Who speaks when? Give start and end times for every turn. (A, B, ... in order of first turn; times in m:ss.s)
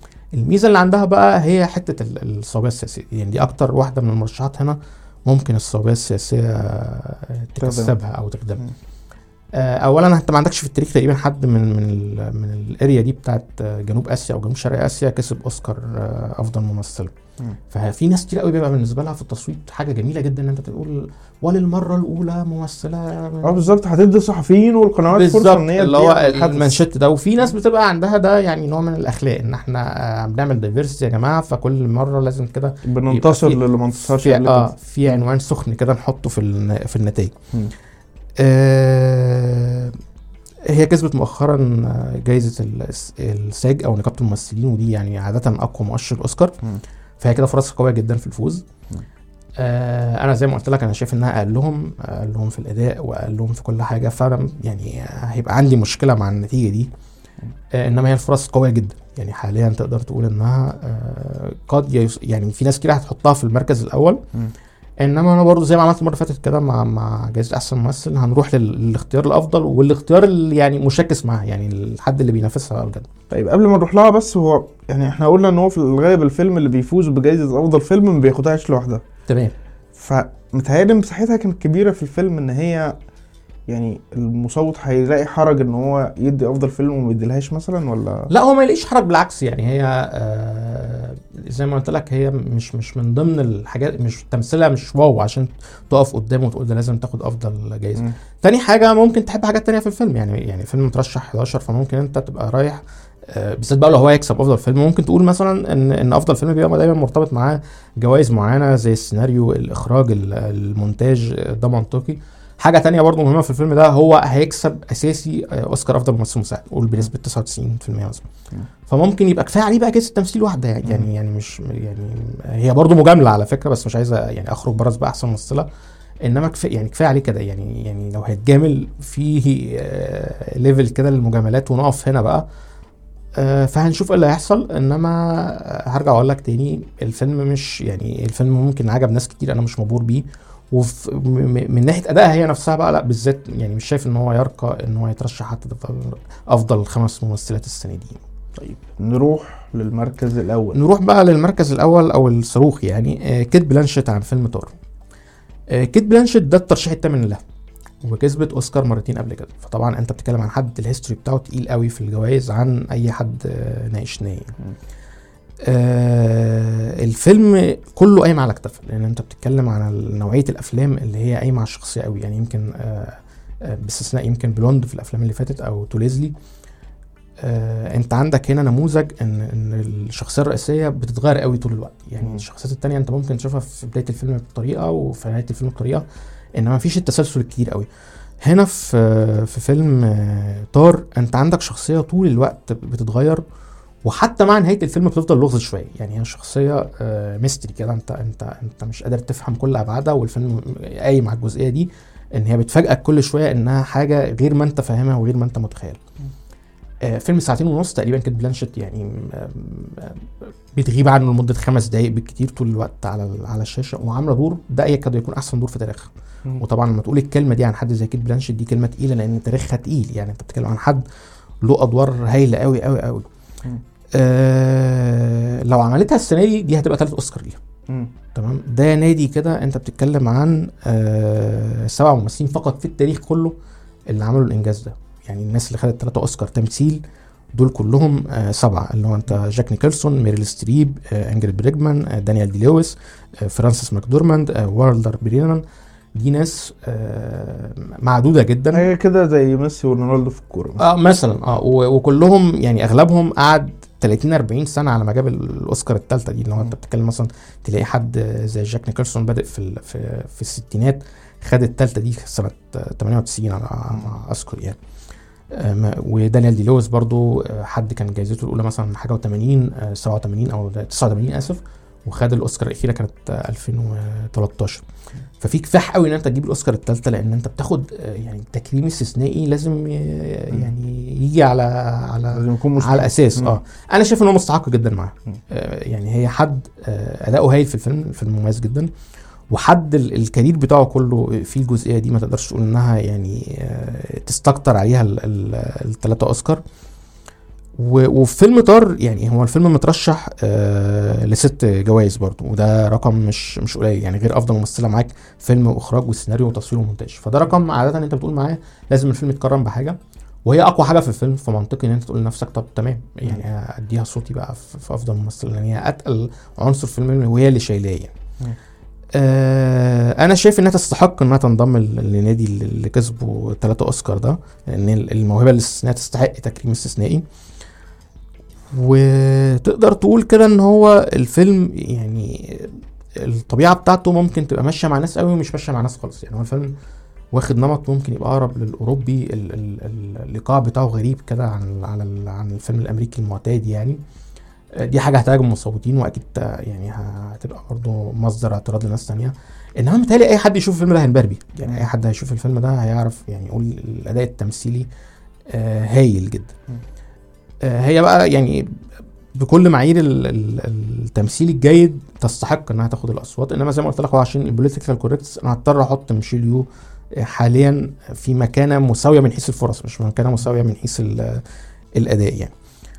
0:00.3-0:08.6 A
0:07.6-0:07.9 B
0:09.5-0:17.1 A
0:17.7-0:23.7 A
0:23.4-0:26.8 B
0:25.1-0:37.4 A
0:32.8-0:34.7 B
0:38.4-0:40.0 A
0:40.7-0:46.6 A
0:47.2-0:48.6 A
0:49.6-0:56.9 A
0:57.7-1:04.2 A
1:05.0-1:13.1 A
1:13.3-1:19.0 B
1:19.3-1:19.5 A
1:20.0-1:23.0 B
1:23.7-1:28.3 B
1:28.3-1:58.3 A
1:58.9-2:05.7 A
2:06.2-2:12.5 A
2:13.4-2:28.2 A
2:28.6-2:30.8 B
2:30.7-2:34.8 A
2:35.7-2:37.4 A
2:38.0-2:44.5 A
2:45.7-2:56.3 A
2:57.4-3:06.1 A
3:06.6-3:07.9 A
3:08.4-3:13.4 A
3:14.0-3:26.0 A
3:27.0-3:41.0 A
3:41.6-3:43.3 A
3:44.1-3:47.6 A
3:48.3-3:53.6 A
3:54.1-3:57.0 A
3:57.5-4:05.6 A
4:06.2-4:08.9 A
4:08.7-4:10.8 B
4:10.8-4:24.8 A
4:25.5-4:34.8 A
4:35.4-4:48.9 A
4:42.3-4:43.6 B
4:49.5-4:56.6 A
4:57.8-5:18.1 A
5:19.1-5:27.2 A
5:28.7-5:36.7 A
5:37.3-5:44.0 A
5:44.8-5:54.9 A
5:55.5-5:56.6 A
5:57.6-5:58.8 A
5:59.3-6:11.4 A
6:12.0-6:12.5 A